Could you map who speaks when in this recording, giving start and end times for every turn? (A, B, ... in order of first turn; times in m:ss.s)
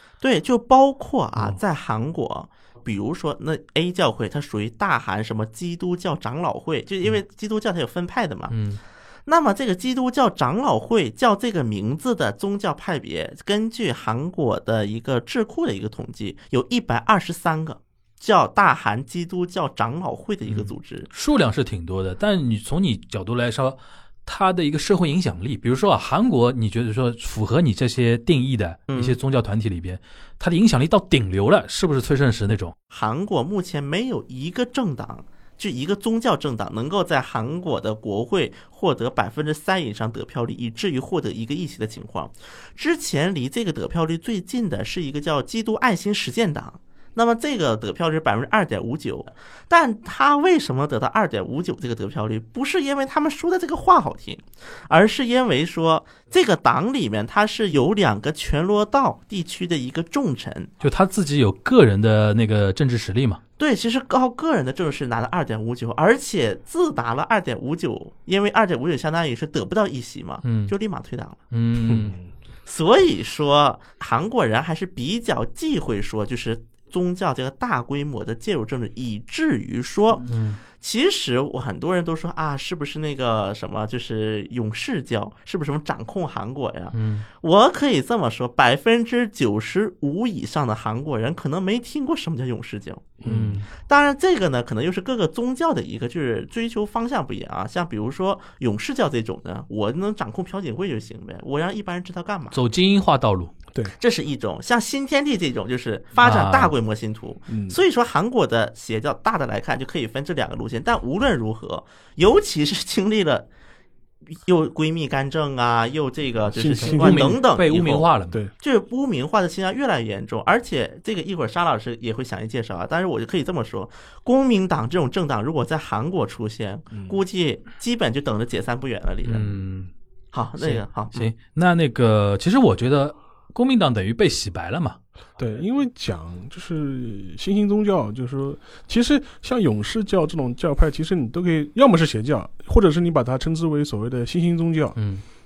0:00.2-0:08.5 A
0:08.5-0:08.8 B
0:09.2-0:21.1 A
0:20.5-0:32.7 B
0:28.9-0:29.2 A
0:32.9-1:00.7 A
1:00.8-1:03.4 B
1:03.6-1:11.4 A
1:10.4-1:10.7 B
1:11.5-1:12.1 B
1:11.8-1:12.3 C
1:12.6-1:33.1 A
1:20.2-1:20.6 B
1:26.9-1:27.2 B
1:33.2-1:33.6 C
1:33.2-1:33.6 B
1:33.8-1:42.6 A
1:42.5-1:43.5 B
1:44.0-1:53.5 A
1:46.2-1:46.7 B
1:47.5-1:47.8 C
1:54.3-2:09.5 A
1:56.5-1:57.4 C
1:56.8-1:58.4 B
2:06.9-2:07.2 C
2:09.2-2:09.9 B
2:10.3-2:11.3 A
2:10.6-2:15.0 B
2:15.4-2:25.0 C
2:25.0-2:25.2 B